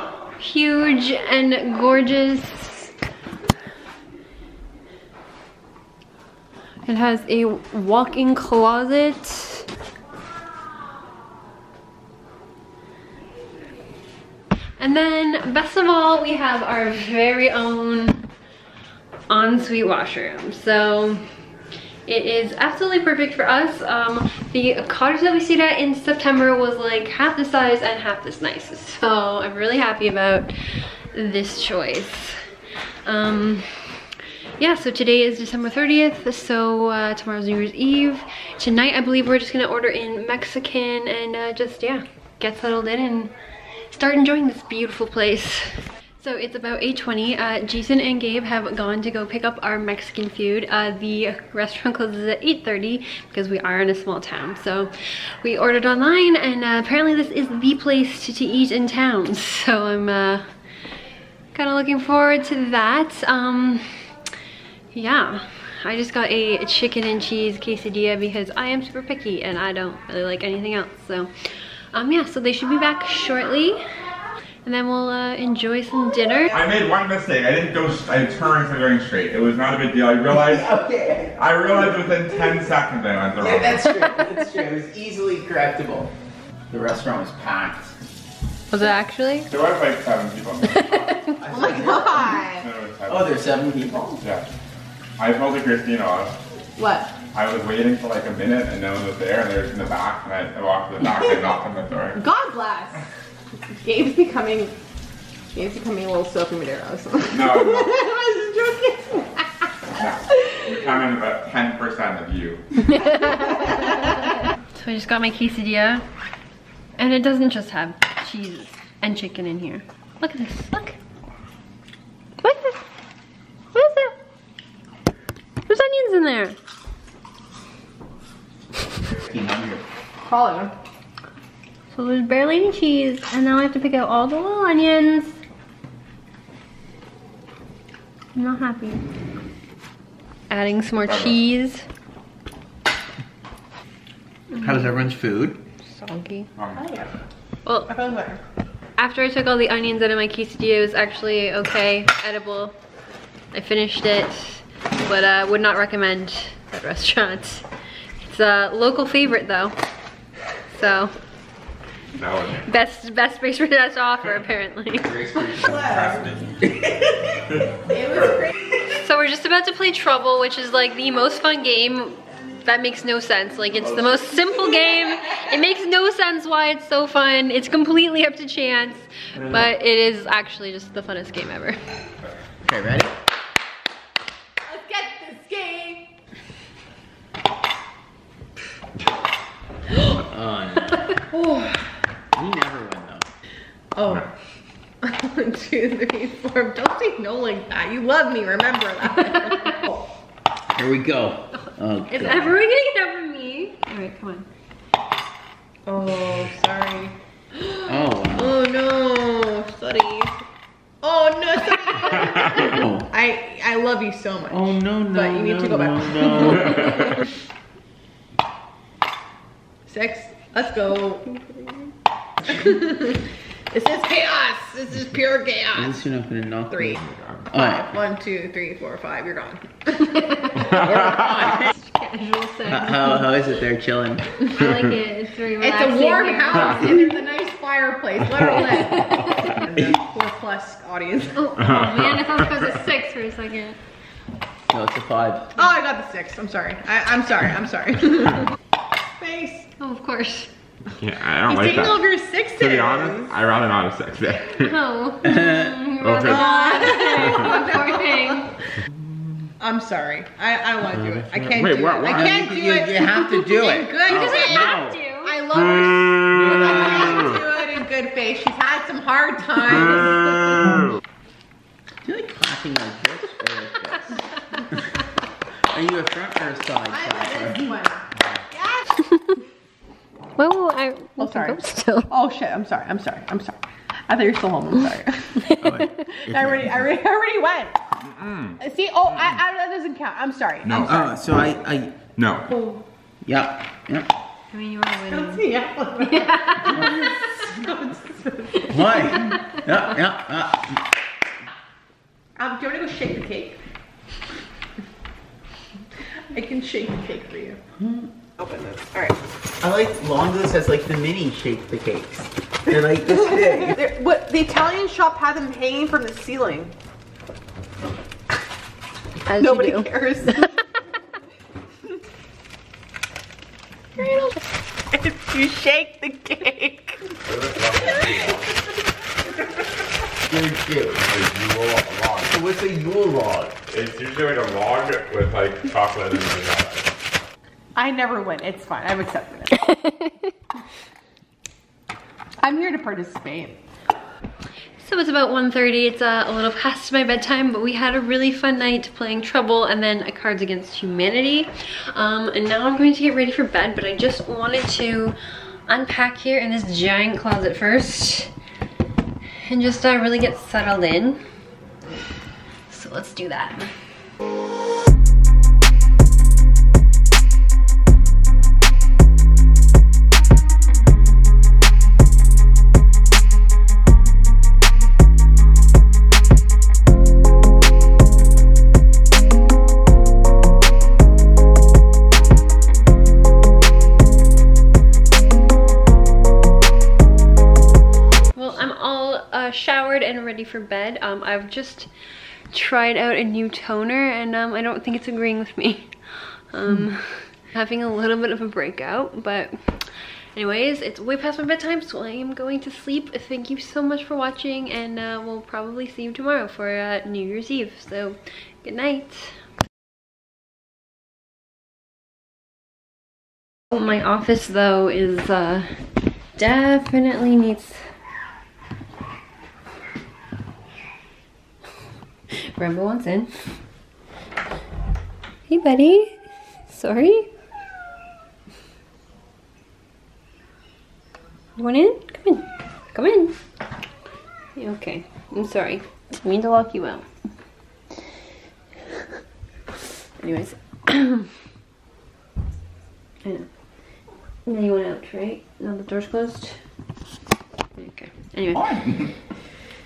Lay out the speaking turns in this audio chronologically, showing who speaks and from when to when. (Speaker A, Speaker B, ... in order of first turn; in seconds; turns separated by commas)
Speaker A: 0.4-2.9, Speaker A: 6.8-9.7, Speaker A: 14.8-18.3, Speaker A: 19.3-21.3, Speaker A: 22.1-32.4, Speaker A: 33.0-43.3, Speaker A: 43.9-60.5, Speaker A: 61.5-64.1, Speaker A: 64.9-71.3, Speaker A: 71.9-73.8, Speaker A: 74.6-76.6, Speaker B: 76.5-80.7, Speaker C: 80.3-81.8, Speaker B: 81.3-84.0, Speaker C: 83.4-86.1, Speaker C: 86.7-87.9, Speaker A: 88.7-89.5, Speaker B: 89.5-90.9, Speaker A: 90.7-91.4, Speaker C: 91.4-92.4, Speaker D: 91.5-92.7, Speaker B: 92.5-93.4, Speaker C: 93.1-94.2, Speaker B: 94.2-94.5, Speaker B: 95.2-96.4, Speaker D: 96.8-97.2, Speaker B: 97.3-102.2, Speaker D: 102.1-103.1, Speaker D: 103.8-104.8, Speaker D: 105.5-109.7, Speaker B: 107.3-107.9, Speaker B: 110.0-112.6, Speaker A: 112.9-114.1, Speaker A: 114.7-116.0, Speaker A: 117.0-121.0, Speaker A: 122.4-122.8, Speaker A: 123.7-124.2, Speaker A: 125.6-126.5, Speaker C: 129.0-129.8, Speaker D: 130.2-130.7, Speaker A: 131.9-135.4, Speaker A: 138.3-139.0, Speaker A: 140.5-141.8, Speaker B: 141.0-141.3, Speaker A: 144.5-145.0, Speaker C: 144.6-145.6, Speaker A: 145.8-146.5, Speaker B: 146.6-146.8, Speaker D: 146.7-147.1, Speaker A: 147.6-147.9, Speaker D: 147.9-148.4, Speaker A: 149.0-152.8, Speaker A: 153.5-157.7, Speaker A: 158.2-159.8, Speaker A: 160.7-161.1, Speaker B: 162.2-162.7, Speaker A: 162.6-165.5, Speaker C: 165.0-166.2, Speaker D: 165.5-166.2, Speaker D: 167.9-168.5, Speaker B: 168.1-168.3, Speaker A: 168.9-181.8, Speaker C: 182.6-183.1, Speaker D: 184.6-186.1, Speaker C: 190.1-191.0, Speaker D: 191.3-191.9, Speaker C: 192.3-193.2, Speaker D: 193.9-194.3, Speaker D: 195.0-200.1, Speaker C: 200.7-202.6, Speaker A: 202.1-204.4, Speaker D: 205.8-210.3, Speaker C: 207.8-208.6, Speaker D: 211.0-217.1, Speaker C: 212.6-213.1, Speaker C: 214.5-217.2, Speaker D: 219.9-221.3, Speaker D: 222.4-226.0, Speaker C: 225.7-226.9, Speaker D: 226.7-227.0, Speaker B: 226.9-227.5, Speaker C: 227.5-227.9, Speaker D: 227.5-230.2, Speaker A: 230.1-233.3, Speaker C: 230.7-231.7, Speaker C: 232.7-234.3, Speaker A: 234.5-237.1, Speaker D: 235.6-241.4, Speaker A: 241.3-243.8, Speaker B: 241.6-242.4, Speaker C: 244.7-245.5, Speaker D: 245.5-248.5, Speaker D: 249.2-249.7, Speaker A: 249.8-250.5, Speaker B: 250.9-252.0, Speaker D: 251.4-253.4, Speaker B: 252.6-254.7, Speaker A: 254.6-258.6, Speaker C: 255.2-255.8, Speaker B: 256.0-256.4, Speaker D: 256.2-258.4, Speaker D: 259.6-270.8, Speaker B: 261.0-262.4, Speaker C: 262.1-265.0, Speaker A: 264.1-265.4, Speaker C: 266.3-267.4, Speaker C: 272.0-274.2, Speaker C: 275.7-278.3, Speaker D: 276.9-278.9, Speaker A: 279.0-279.3, Speaker A: 280.4-282.1, Speaker D: 281.2-287.8, Speaker A: 285.5-285.9, Speaker C: 285.6-286.9, Speaker B: 288.1-288.6, Speaker D: 288.6-290.9, Speaker B: 290.6-291.1, Speaker C: 290.8-292.0, Speaker B: 292.1-292.4, Speaker D: 292.5-292.8, Speaker C: 293.2-294.1, Speaker A: 294.5-295.5, Speaker D: 295.1-299.3, Speaker A: 296.1-297.0, Speaker C: 298.7-300.8, Speaker D: 302.4-303.6, Speaker D: 306.3-307.6, Speaker C: 307.8-308.1, Speaker D: 308.4-309.2, Speaker C: 309.6-313.8, Speaker D: 313.4-316.7, Speaker A: 319.2-320.5, Speaker D: 319.3-320.6, Speaker D: 324.0-324.4, Speaker D: 324.9-327.0, Speaker B: 327.2-328.5, Speaker D: 327.7-328.5, Speaker C: 330.3-331.0, Speaker B: 331.0-332.4, Speaker C: 332.3-333.6, Speaker B: 333.7-336.9, Speaker D: 337.8-339.7, Speaker A: 339.7-340.2, Speaker D: 342.4-343.6, Speaker A: 344.8-355.1, Speaker A: 355.7-358.3, Speaker A: 359.4-361.2, Speaker A: 362.7-363.7, Speaker A: 388.3-391.9, Speaker A: 392.5-409.4, Speaker A: 413.7-415.7, Speaker A: 416.3-417.8, Speaker A: 422.4-423.3, Speaker A: 425.5-427.3, Speaker A: 431.6-433.4, Speaker A: 434.6-437.1, Speaker A: 440.2-441.3, Speaker A: 443.2-443.5, Speaker A: 444.4-446.6, Speaker A: 447.7-448.6, Speaker C: 448.5-449.1